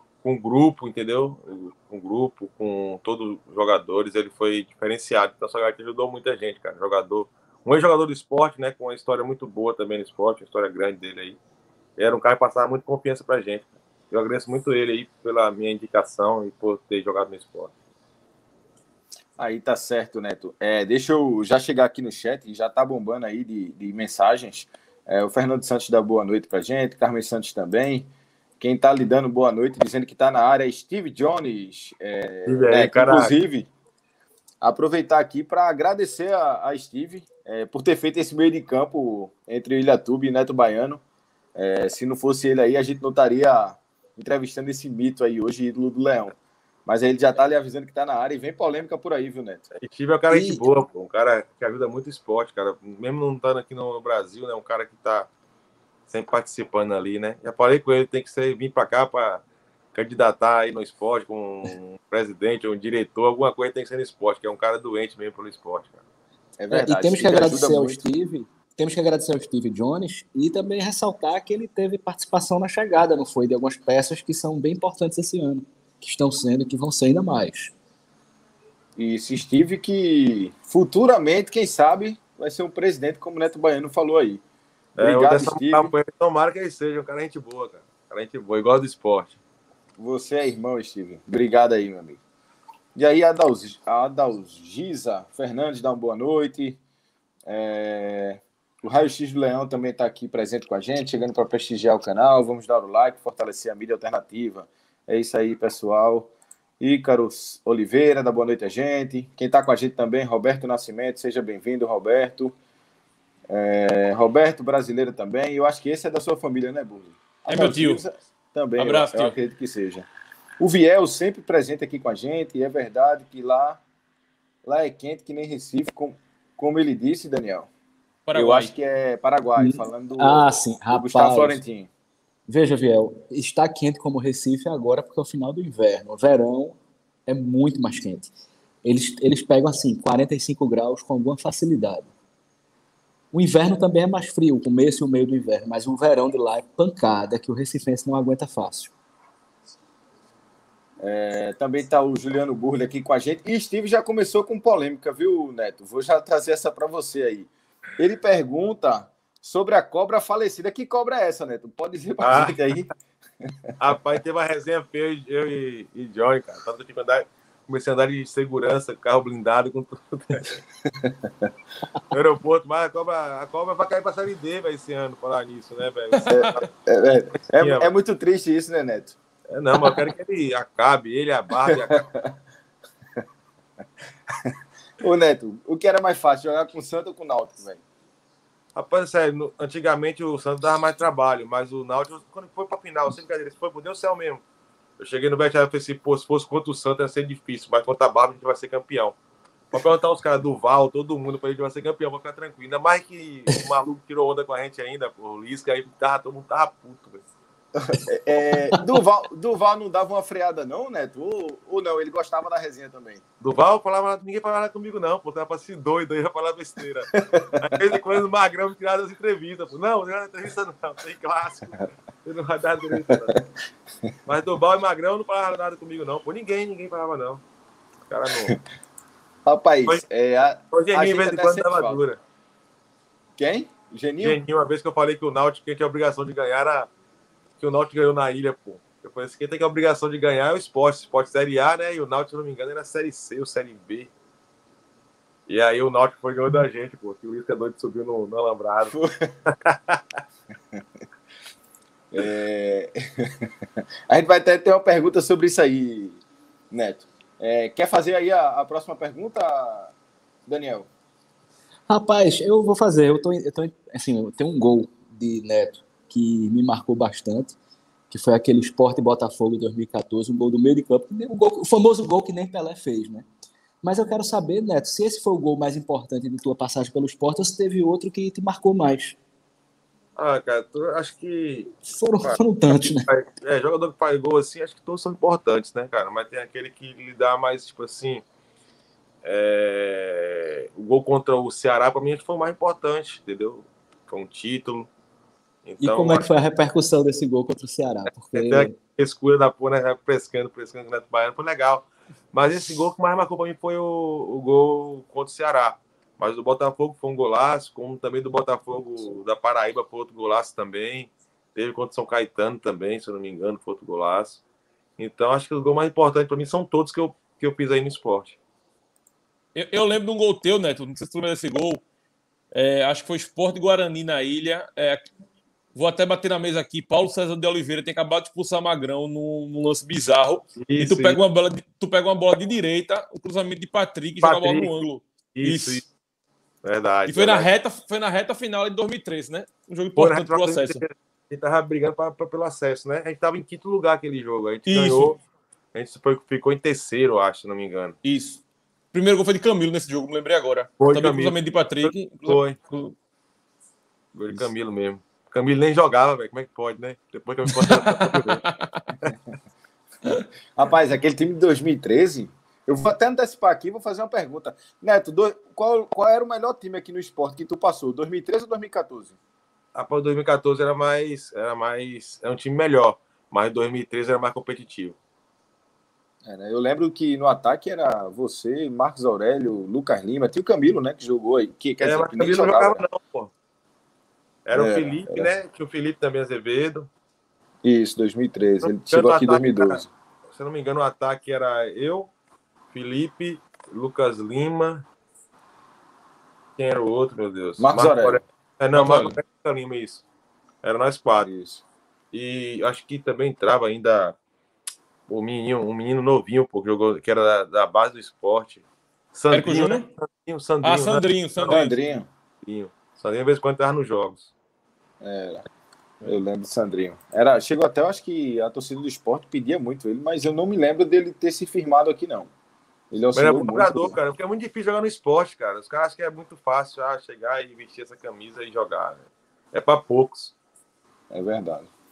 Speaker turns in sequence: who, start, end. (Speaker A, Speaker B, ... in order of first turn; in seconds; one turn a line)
Speaker A: 0.2-11.4
Speaker A: 12.0-17.7
Speaker B: 19.4-33.7
Speaker A: 32.5-33.4
Speaker B: 34.6-41.0
Speaker B: 41.5-46.3
Speaker B: 46.9-49.6
Speaker A: 49.7-55.3
Speaker C: 50.3-50.6
Speaker A: 56.1-59.4
Speaker A: 59.9-66.0
Speaker B: 66.6-68.0
Speaker C: 66.7-77.7
Speaker B: 79.0-84.4
Speaker B: 85.0-85.9
Speaker A: 85.0-89.4
Speaker B: 90.0-92.2
Speaker B: 93.0-96.8
Speaker B: 97.5-112.5
Speaker B: 113.5-120.1
Speaker D: 117.5-118.0
Speaker D: 118.8-119.3
Speaker B: 120.6-123.8
Speaker B: 124.6-127.7
Speaker D: 128.3-128.7
Speaker B: 128.3-131.9
Speaker C: 129.6-131.6
Speaker C: 132.5-138.3
Speaker C: 138.8-142.1
Speaker C: 143.3-148.9
Speaker B: 151.0-162.9
Speaker A: 162.2-162.6
Speaker A: 163.8-170.6
Speaker B: 170.9-171.5
Speaker A: 172.1-176.7
Speaker D: 176.1-176.6
Speaker B: 176.3-179.2
Speaker A: 177.5-177.9
Speaker A: 179.5-182.1
Speaker B: 181.7-182.3
Speaker B: 184.4-187.8
Speaker A: 188.8-194.4
Speaker A: 195.0-199.2
Speaker A: 199.7-207.2
Speaker B: 207.9-213.2
Speaker A: 213.4-223.4
Speaker B: 217.3-217.8
Speaker B: 223.1-223.4
Speaker A: 224.2-227.4
Speaker A: 228.1-228.6
Speaker B: 228.3-228.6
Speaker B: 229.5-232.0
Speaker A: 230.7-232.2
Speaker B: 233.4-234.4
Speaker A: 234.2-236.9
Speaker A: 237.6-244.1
Speaker A: 245.5-250.0
Speaker B: 248.9-249.3
Speaker B: 252.1-259.9
Speaker B: 260.5-260.9
Speaker C: 261.9-267.5
Speaker C: 268.1-273.2
Speaker C: 273.8-279.2
Speaker A: 280.1-288.2
Speaker C: 281.9-283.1
Speaker A: 289.2-294.9
Speaker A: 295.6-296.3
Speaker C: 295.8-298.7
Speaker A: 298.3-314.4
Speaker A: 315.0-318.4
Speaker D: 319.5-321.8
Speaker D: 322.5-325.1
Speaker D: 325.7-335.9
Speaker A: 330.6-331.2
Speaker A: 334.2-334.7
Speaker A: 335.3-335.8
Speaker A: 336.6-337.5
Speaker D: 337.1-340.8
Speaker A: 340.0-345.2
Speaker D: 344.7-345.1
Speaker A: 345.7-348.0
Speaker D: 348.0-348.4
Speaker D: 348.9-352.9
Speaker A: 350.8-352.6
Speaker A: 354.1-358.4
Speaker D: 357.5-358.9
Speaker B: 360.5-369.2
Speaker A: 369.8-375.0
Speaker B: 376.2-382.8
Speaker A: 381.8-383.3
Speaker A: 384.5-386.9
Speaker B: 384.5-385.3
Speaker B: 387.6-389.9
Speaker A: 388.6-392.1
Speaker A: 392.7-394.9
Speaker A: 396.6-400.0
Speaker B: 397.6-398.2
Speaker D: 398.7-399.2
Speaker A: 400.6-401.3
Speaker B: 401.2-401.6
Speaker A: 402.1-404.1
Speaker A: 405.1-411.6
Speaker D: 409.3-409.9
Speaker D: 410.6-411.7
Speaker B: 411.5-412.1
Speaker A: 412.4-414.3
Speaker B: 415.0-415.4
Speaker B: 416.0-422.3
Speaker B: 422.9-424.0
Speaker A: 423.1-429.0
Speaker A: 429.5-430.4
Speaker B: 431.1-431.7